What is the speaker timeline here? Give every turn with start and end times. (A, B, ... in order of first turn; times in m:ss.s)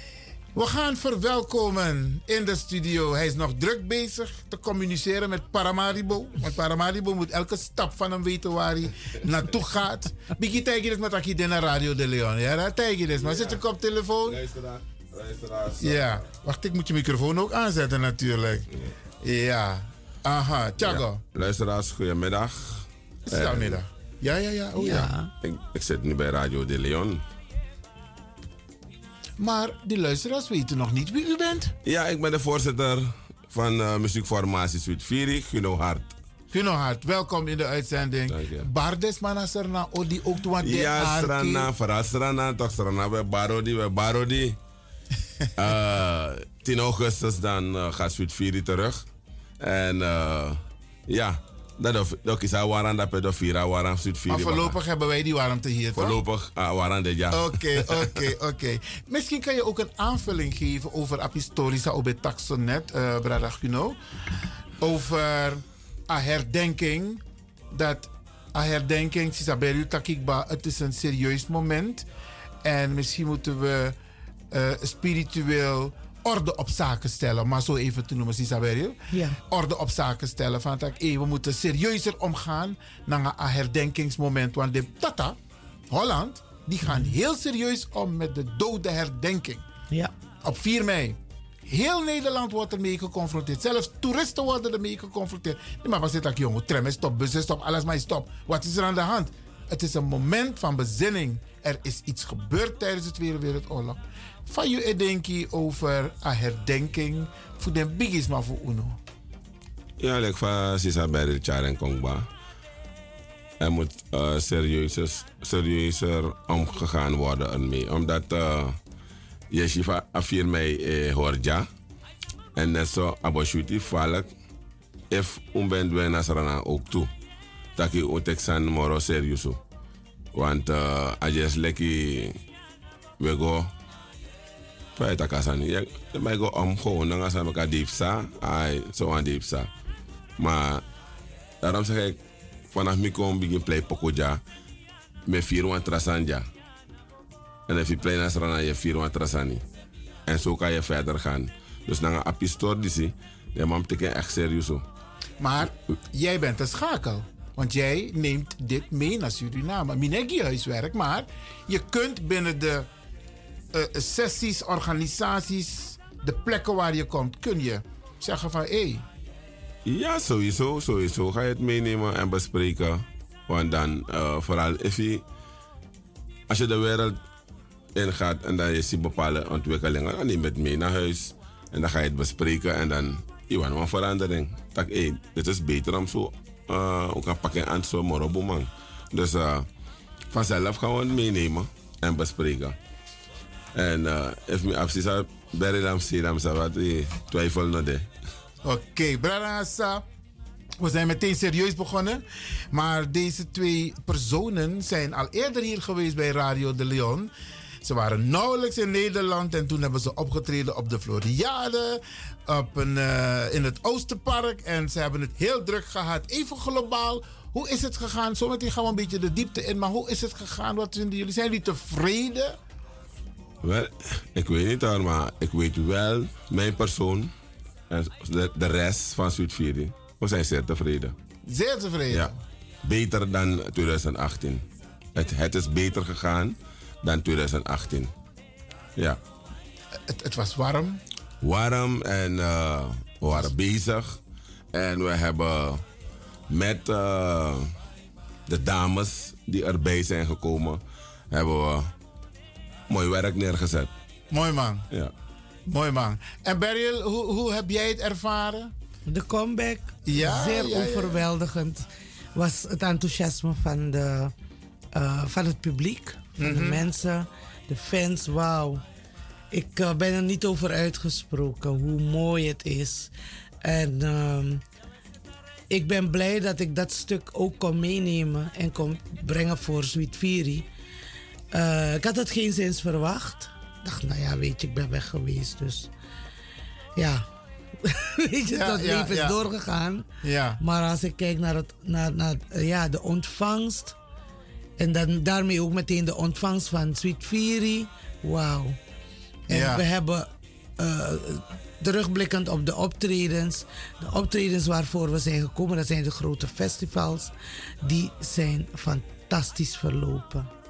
0:00.5-0:14.4 A
0:13.2-0:13.6 B
0:14.2-0:16.2 B
0:15.8-0:18.7 A
0:19.2-0:21.2 A
0:20.8-0:23.8 B
0:23.3-0:25.1 A
0:24.8-0:25.3 C
0:25.4-0:27.2 B
0:29.4-0:31.7 A
0:31.8-0:36.1 B
0:36.5-0:41.7 A
0:38.3-0:38.7 B
0:40.6-0:44.6 B
0:45.6-0:49.0 B
0:49.6-0:54.8 B
0:54.3-0:56.2 A
0:55.9-0:58.1 B
0:57.3-1:04.0 A
1:04.8-1:12.1 A
1:12.6-1:14.0 A
1:14.5-1:25.4 A
1:19.1-1:19.4 C
1:25.9-1:29.6 A
1:30.4-1:49.0 A
1:50.0-1:52.3 B
1:53.6-1:58.8 B
1:59.5-2:01.7 B
2:02.6-2:04.3 B
2:05.1-2:07.1 B
2:07.8-2:09.6 B
2:10.3-2:12.4 B
2:13.2-2:13.7 B
2:15.0-2:19.7 B
2:20.4-2:20.8 B
2:21.6-2:22.2 B
2:22.7-2:24.4 B
2:25.3-2:26.4 B
2:27.7-2:29.6 B
2:30.3-2:34.8 B
2:35.4-2:42.9 A
2:43.7-2:49.0 A
2:49.8-2:55.2 B
2:56.5-2:57.2 B
2:57.9-3:09.7 B
3:10.3-3:12.8 B
3:13.7-3:18.1 B
3:18.6-3:20.0 A
3:20.8-3:27.3 A
3:27.8-3:42.6 A
3:43.6-3:47.3 B
3:47.9-3:51.1 B
3:51.4-3:52.4 A
3:52.8-3:54.6 B
3:55.1-3:58.1 B
4:00.0-4:01.0 A
4:01.4-4:04.2 B
4:04.7-4:05.8 B
4:06.5-4:07.7 B
4:08.5-4:11.9 B
4:12.9-4:13.9 B
4:14.3-4:14.9 A
4:15.6-4:18.7 A
4:19.1-4:24.3 C
4:20.0-4:21.2 A
4:24.9-4:28.8 C
4:26.4-4:26.8 A
4:29.5-4:33.1 C
4:33.6-4:34.6 C
4:35.7-4:40.6 C
4:41.5-4:45.9 C
4:47.0-4:47.2 C
4:47.8-4:50.0 C
4:48.5-4:49.4 A
4:50.2-4:50.6 A
4:50.6-4:54.0 C
4:54.8-4:58.8 C
4:59.5-5:10.5 C
4:59.5-4:59.8 A